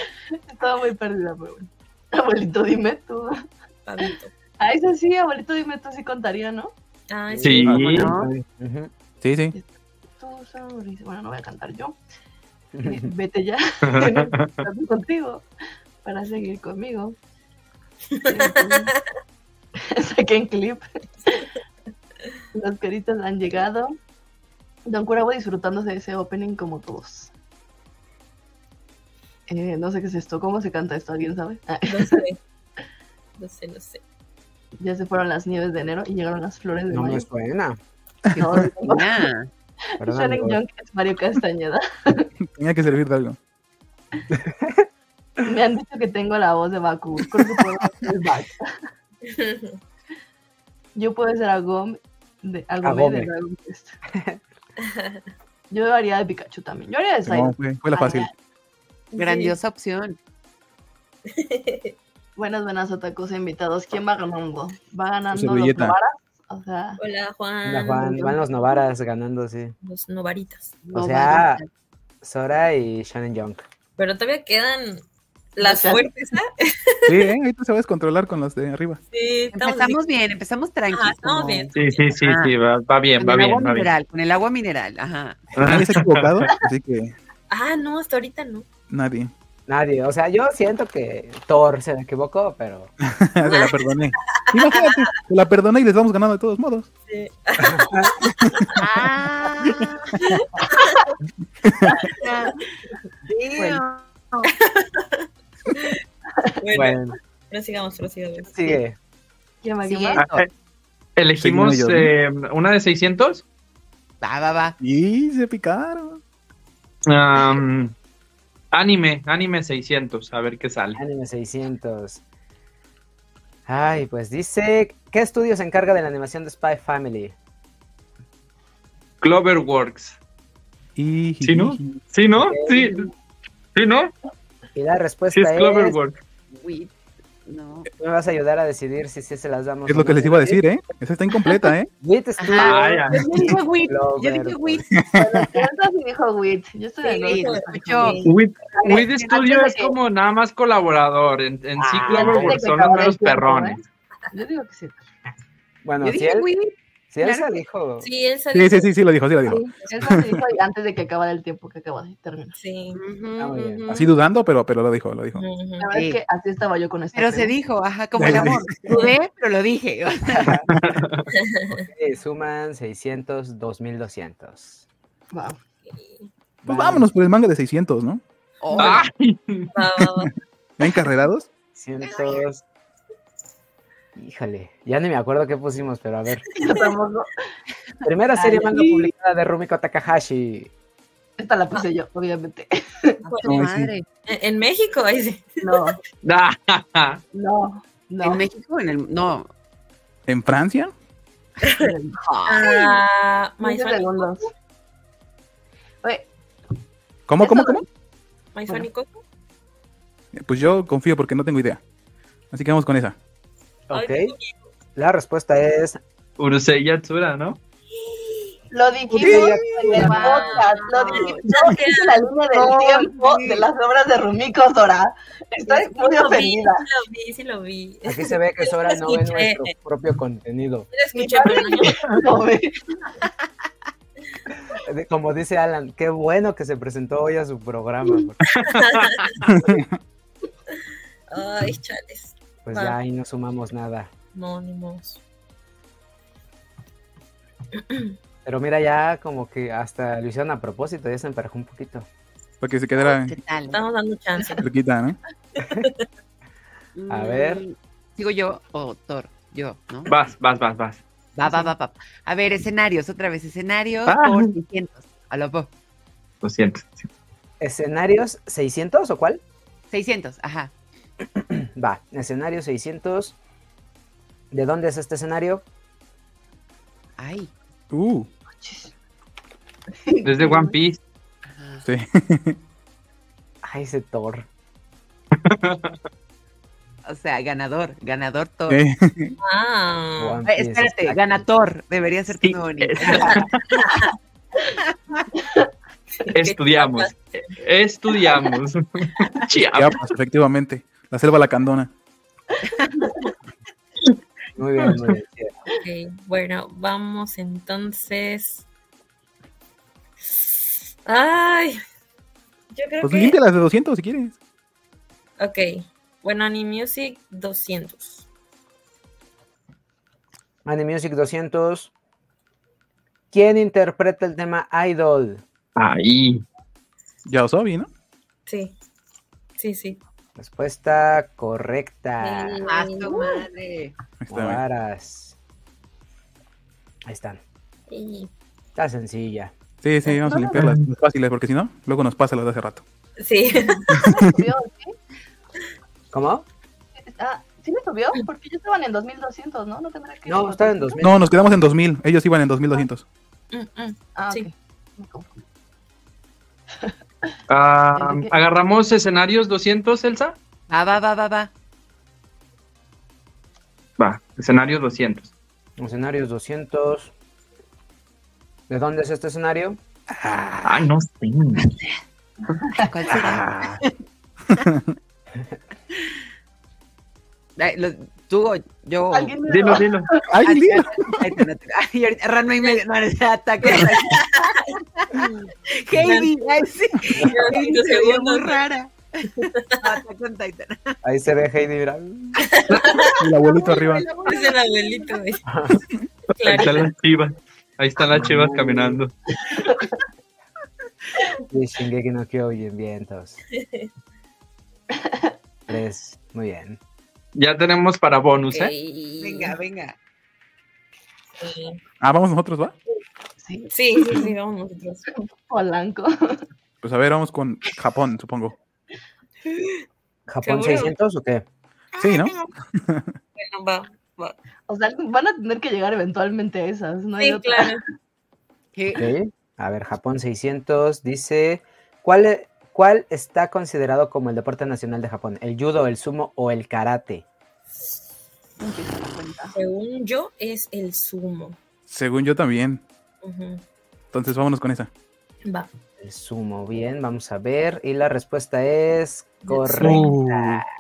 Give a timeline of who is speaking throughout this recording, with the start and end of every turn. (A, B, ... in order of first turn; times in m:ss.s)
0:00.5-0:03.3 A
0:03.8-0:04.3 B
0:04.6-0:06.7 A
0:07.1-0:07.7 B
0:07.3-0:08.9 C
0:07.4-0:08.1 D
0:07.7-0:08.0 E
0:07.8-0:08.3 F
0:09.2-0:09.6 E
0:09.5-0:12.0 A
0:12.7-0:13.1 C
0:12.8-0:15.5 A
0:13.8-0:14.5 D
0:16.0-0:17.2 A
0:18.2-0:18.9 A
0:19.8-0:20.8 A
0:22.5-0:24.0 A
0:24.9-0:27.3 A
0:29.5-0:32.2 A
0:31.9-0:32.4 B
0:33.4-0:34.0 B
0:34.8-0:37.3 A
0:36.9-0:37.8 C
0:38.4-0:39.5 F
0:38.4-0:39.2 A
0:40.0-0:42.3 A
0:40.0-0:40.6 C
0:42.5-0:43.4 E
0:44.3-0:44.9 C
0:45.4-0:48.7 A
0:49.3-0:49.8 B
0:51.0-0:54.0 A
0:52.8-0:53.3 C
0:54.1-0:54.4 C
0:54.8-0:55.2 B
0:55.7-0:58.3 A
0:57.3-0:58.3 E
0:59.1-0:59.6 B
0:59.2-1:00.2 F
1:01.3-1:01.9 B
1:02.4-1:07.0 A
1:05.3-1:06.0 E
1:07.0-1:08.4 B
1:07.6-1:09.8 C
1:09.8-1:10.7 B
1:10.8-1:11.6 F
1:10.9-1:11.6 C
1:11.0-1:11.3 A
1:12.2-1:13.6 C
1:14.0-1:15.0 B
1:15.6-1:17.3 B
1:15.6-1:16.1 A
1:17.1-1:19.0 E
1:19.1-1:20.0 B
1:19.5-1:22.5 F
1:20.9-1:22.1 B
1:21.8-1:23.9 D
1:23.2-1:25.6 F
1:25.6-1:26.5 D
1:25.6-1:27.1 E
1:27.5-1:28.7 B
1:28.9-1:29.3 E
1:29.7-1:32.9 C
1:33.0-1:36.9 E
1:33.4-1:35.1 B
1:37.1-1:38.8 B
1:37.6-1:38.1 C
1:38.4-1:38.7 E
1:38.8-1:40.1 F
1:40.2-1:41.0 B
1:41.7-1:42.0 E
1:42.2-1:42.6 F
1:43.3-1:44.5 F
1:44.7-1:46.0 B
1:46.6-1:48.8 B
1:46.7-1:47.2 C
1:48.5-1:49.0 C
1:49.6-1:50.2 A
1:49.8-1:50.5 F
1:50.2-1:50.5 D
1:51.2-1:53.4 D
1:51.4-1:52.1 E
1:54.2-1:54.8 F
1:54.8-1:56.2 E
1:57.1-1:57.9 D
1:58.7-2:01.0 D
2:01.0-2:02.2 C
2:03.7-2:07.4 C
2:09.2-2:10.2 D
2:11.0-2:12.0 E
2:11.4-2:13.1 D
2:12.3-2:13.1 C
2:13.8-2:14.1 D
2:14.8-2:16.0 C
2:15.3-2:16.2 D
2:16.5-2:16.9 F
2:17.4-2:17.9 F
2:17.9-2:20.6 C
2:19.9-2:21.9 E
2:22.0-2:24.9 C
2:22.4-2:24.9 F
2:22.6-2:23.2 D
2:24.9-2:25.5 E
2:25.2-2:28.2 A
2:27.0-2:28.3 B
2:27.2-2:29.8 F
2:28.2-2:33.8 D
2:28.8-2:29.9 A
2:31.9-2:32.5 F
2:32.1-2:33.8 A
2:34.3-2:35.0 A
2:35.8-2:36.5 C
2:36.0-2:37.6 F
2:37.1-2:38.1 C
2:38.0-2:38.9 B
2:38.5-2:40.4 E
2:39.5-2:42.6 A
2:42.6-2:43.0 B
2:42.9-2:44.2 F
2:43.4-2:43.9 C
2:43.9-2:45.4 E
2:45.4-2:45.9 B
2:45.8-2:47.6 A
2:45.9-2:46.2 F
2:47.1-2:50.6 F
2:48.2-2:48.8 E
2:50.3-2:50.7 C
2:50.8-2:51.3 D
2:51.3-2:51.9 B
2:51.7-2:54.8 C
2:55.3-2:55.6 A
2:55.9-2:56.3 B
2:56.6-2:57.1 C
2:56.7-2:58.2 E
2:58.6-2:59.1 F
2:58.8-2:59.7 D
2:59.7-3:00.3 B
3:00.0-3:01.5 E
3:01.7-3:02.6 C
3:04.2-3:06.7 C
3:06.6-3:07.3 A
3:08.0-3:10.7 C
3:08.3-3:09.1 A
3:11.4-3:13.2 A
3:13.3-3:13.6 B
3:13.3-3:14.1 F
3:13.5-3:13.9 E
3:14.3-3:15.8 B
3:15.6-3:16.0 A
3:16.2-3:17.2 D
3:17.3-3:18.5 A
3:18.2-3:19.5 F
3:20.3-3:20.9 E
3:21.8-3:22.2 A
3:22.2-3:23.0 F
3:22.5-3:24.5 B
3:23.6-3:24.5 A
3:26.0-3:26.3 A
3:27.3-3:27.8 E
3:27.4-3:27.8 A
3:28.6-3:29.2 B
3:30.3-3:31.8 E
3:32.5-3:33.2 E
3:33.9-3:34.3 C
3:33.9-3:34.7 B
3:35.0-3:36.0 C
3:36.4-3:37.6 D
3:38.7-3:46.8 A
3:39.1-3:40.2 C
3:39.2-3:41.4 F
3:39.9-3:42.3 B
3:42.5-3:43.7 F
3:45.6-3:49.6 B
3:48.1-3:50.9 C
3:50.9-3:52.0 B
3:51.1-3:53.0 A
3:54.7-3:58.5 C
3:58.5-3:59.3 D
3:58.6-3:59.4 B
3:59.5-3:59.9 E
4:01.3-4:03.0 B
4:02.6-4:04.1 C
4:04.3-4:05.2 B
4:07.8-4:08.1 B
4:08.4-4:12.1 C
4:12.6-4:13.4 E
4:13.0-4:13.8 F
4:13.7-4:14.7 B
4:14.6-4:15.2 E
4:15.6-4:16.0 B
4:17.0-4:20.1 F
4:17.1-4:17.6 C
4:20.1-4:21.0 D
4:21.4-4:25.7 F
4:24.1-4:24.6 D
4:26.4-4:27.1 D
4:27.6-4:29.4 C
4:29.9-4:30.7 F
4:31.3-4:33.4 C
4:34.5-4:35.6 C
4:37.2-4:37.5 F
4:37.9-4:38.3 E
4:38.5-4:38.9 A
4:40.0-4:40.8 A
4:40.2-4:41.0 D
4:41.5-4:41.9 F
4:41.8-4:42.6 E
4:43.6-4:44.5 C
4:45.4-4:46.0 D
4:47.0-4:48.8 F
4:48.7-4:49.4 E
4:49.4-4:50.4 B
4:50.2-4:51.4 C
4:50.5-4:53.5 F
4:52.4-4:53.6 D
4:53.3-4:54.1 B
4:56.2-4:57.6 B
4:56.3-5:00.1 D
4:59.6-5:01.9 E
5:03.0-5:03.2 A
5:04.6-5:05.5 C
5:04.8-5:05.1 D
5:05.7-5:08.7 B
5:10.3-5:11.8 B
5:12.7-5:13.4 B
5:13.0-5:14.4 E
5:15.4-5:18.3 B
5:20.6-5:21.9 C
5:23.3-5:25.4 C
5:25.8-5:26.4 D
5:27.3-5:27.9 E
5:28.5-5:28.8 B
5:29.6-5:30.0 B
5:30.4-5:32.6 C
5:32.2-5:33.5 B
5:32.6-5:34.0 F
5:34.2-5:34.6 E
5:34.3-5:35.4 C
5:37.0-5:37.4 C
5:37.9-5:38.3 B
5:38.8-5:39.5 C
5:39.8-5:42.8 E
5:40.1-5:40.6 A
5:40.6-5:40.9 D
5:43.2-5:43.8 B
5:43.6-5:45.0 A
5:43.9-5:44.4 E
5:46.1-5:46.5 C
5:47.0-5:51.1 A
5:50.3-5:51.2 C
5:51.0-5:53.0 E
5:53.5-5:54.5 B
5:54.2-5:55.4 A
5:56.8-5:57.3 A
5:57.5-6:00.4 D
5:58.0-5:58.4 A
6:00.7-6:01.5 F
6:04.0-6:05.3 D
6:05.8-6:07.1 C
6:08.7-6:09.8 C
6:10.2-6:10.6 E
6:10.6-6:11.7 D
6:12.8-6:13.7 F
6:13.2-6:13.8 E
6:14.5-6:14.9 E
6:17.6-6:19.4 F
6:19.1-6:20.3 A
6:19.5-6:20.1 D
6:20.3-6:21.2 E
6:20.4-6:31.0 F
6:24.1-6:25.3 B
6:26.0-6:26.3 B
6:27.2-6:28.6 B
6:29.4-6:29.8 B
6:31.0-6:32.4 C
6:32.5-6:33.1 B
6:32.8-6:35.2 F
6:33.2-6:34.1 E
6:34.2-6:35.4 B
6:35.5-6:35.8 C
6:36.3-6:36.9 B
6:36.4-6:39.1 D
6:38.0-6:39.0 C
6:39.5-6:39.9 A
6:41.5-6:43.4 C
6:43.5-6:43.9 B
6:45.0-6:45.3 A
6:45.7-6:46.8 C
6:47.4-6:48.7 D
6:48.5-6:49.6 B
6:49.2-6:50.0 F
6:51.4-6:51.8 B
6:52.0-6:52.8 E
6:53.4-6:54.3 A
6:53.7-6:55.1 B
6:55.4-6:56.4 A
6:56.8-6:58.6 E
6:59.5-6:59.8 B
7:00.3-7:01.4 C
7:00.4-7:00.9 B
7:02.0-7:03.1 E
7:02.0-7:02.4 B
7:03.4-7:04.4 B
7:04.7-7:07.8 A
7:07.2-7:07.8 B
7:08.8-7:09.1 F
7:09.0-7:17.2 C
7:18.6-7:19.5 A
7:19.5-7:21.6 B
7:21.9-7:22.8 E
7:23.2-7:23.6 B
7:24.1-7:24.9 E
7:26.0-7:30.6 C
7:29.5-7:30.0 B
7:29.8-7:30.6 E